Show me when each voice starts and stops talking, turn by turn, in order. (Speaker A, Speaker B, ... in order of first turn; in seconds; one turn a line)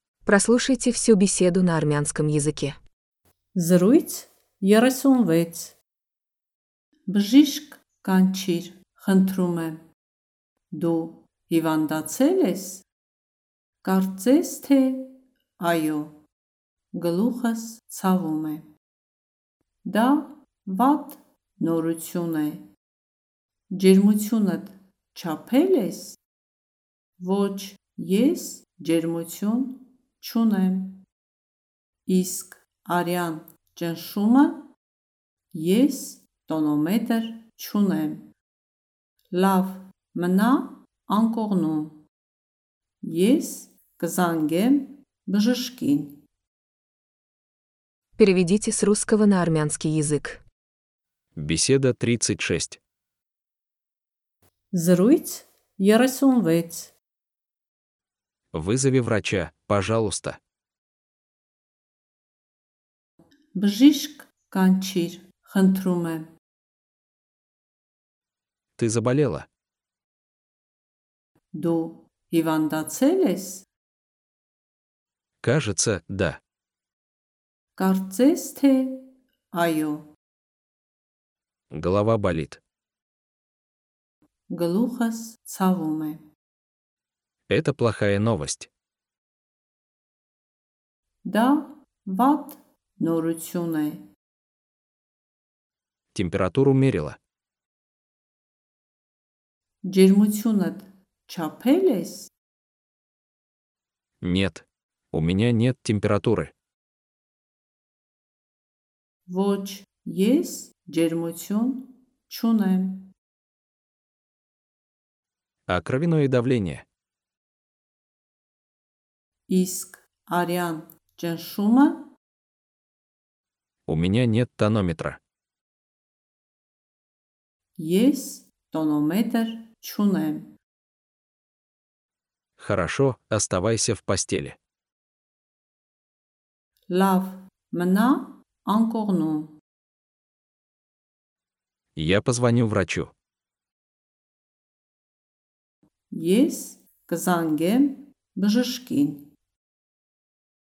Speaker A: 0.3-2.8
Speaker B: 3.6-5.8
Speaker B: 7.1-9.8
Speaker B: 10.7-12.9
Speaker B: 13.8-16.2
Speaker B: 16.9-18.7
Speaker B: 19.9-22.7
Speaker B: 23.7-26.2
Speaker B: 27.2-31.1
Speaker B: 32.1-34.7
Speaker B: 35.5-38.3
Speaker B: 39.3-42.0
Speaker B: 43.0-46.2
Speaker A: 48.2-50.4
Speaker C: 51.4-52.8
Speaker B: 54.7-57.0
Speaker C: 58.5-60.4
Speaker B: 63.5-66.3
Speaker C: 68.8-69.5
Speaker B: 71.5-73.7
Speaker C: 75.4-76.4
Speaker B: 77.8-80.1
Speaker C: 81.7-82.6
Speaker B: 84.5-86.2
Speaker C: 87.5-88.7
Speaker B: 91.2-94.1
Speaker C: 96.1-97.2
Speaker B: 99.8-102.3
Speaker C: 104.2-106.5
Speaker B: 109.3-113.1
Speaker C: 115.7-116.8
Speaker B: 119.5-122.1
Speaker C: 123.9-125.2
Speaker B: 127.8-130.6
Speaker C: 132.6-134.6
Speaker B: 136.9-139.6
Speaker C: 142.0-143.1
Speaker B: 146.1-149.3